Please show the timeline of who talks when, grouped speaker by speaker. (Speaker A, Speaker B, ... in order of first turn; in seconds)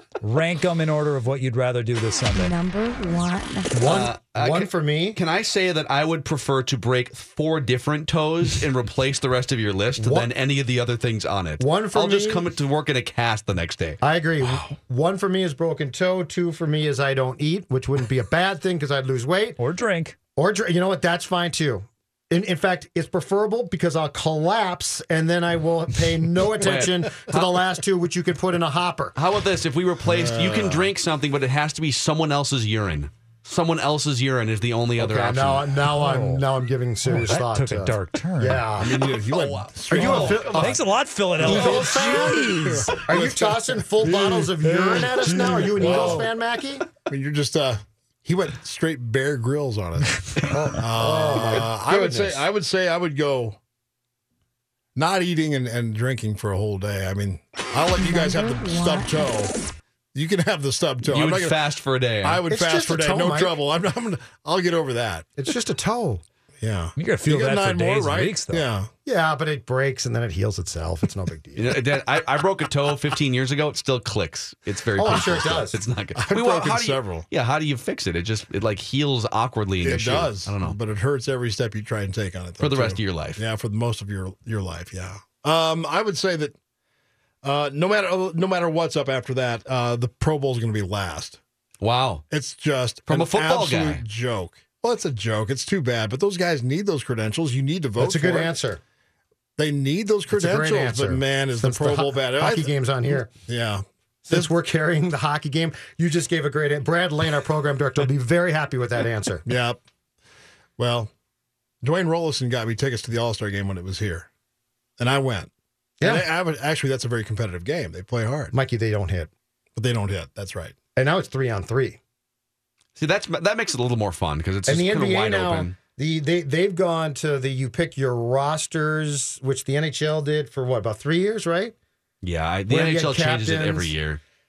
Speaker A: 0.2-2.5, 19.6-20.2, 35.9-36.4, 37.0-38.6, 40.0-43.0, 44.0-46.2, 67.0-68.6
Speaker B: 2.3-4.0, 58.0-59.5
Speaker C: 3.7-5.2, 10.0-10.3, 11.6-12.4, 14.0-19.6, 20.4-29.1, 35.0-38.9, 39.9-40.8, 41.4-42.4, 43.0-46.8, 50.5-52.5, 62.5-63.6, 65.4-66.2, 69.0-71.8, 75.0-75.8, 98.0-98.8, 100.3-103.3, 104.3-109.5, 116.0-116.3, 118.5-119.3, 121.0-122.0, 124.7-131.7, 132.7-133.9
Speaker D: 3.8-14.7, 26.6-27.5, 29.1-35.8, 38.8-40.8, 41.4-42.0, 61.0-62.4, 71.5-80.8, 82.6-83.4, 91.8-92.2, 93.1-94.0, 123.0-125.7, 132.2-134.2
Speaker E: 30.1-30.9, 38.8-40.6, 41.4-44.5, 45.2-46.3, 47.0-53.6, 55.0-59.5, 60.1-61.6, 62.2-65.3, 66.6-68.9, 75.0-77.3, 79.8-86.5, 87.4-91.4, 92.3-98.5, 99.6-102.7, 103.5-104.5, 109.5-109.8, 110.8-111.1, 111.8-114.3, 115.0-118.5, 119.8-120.7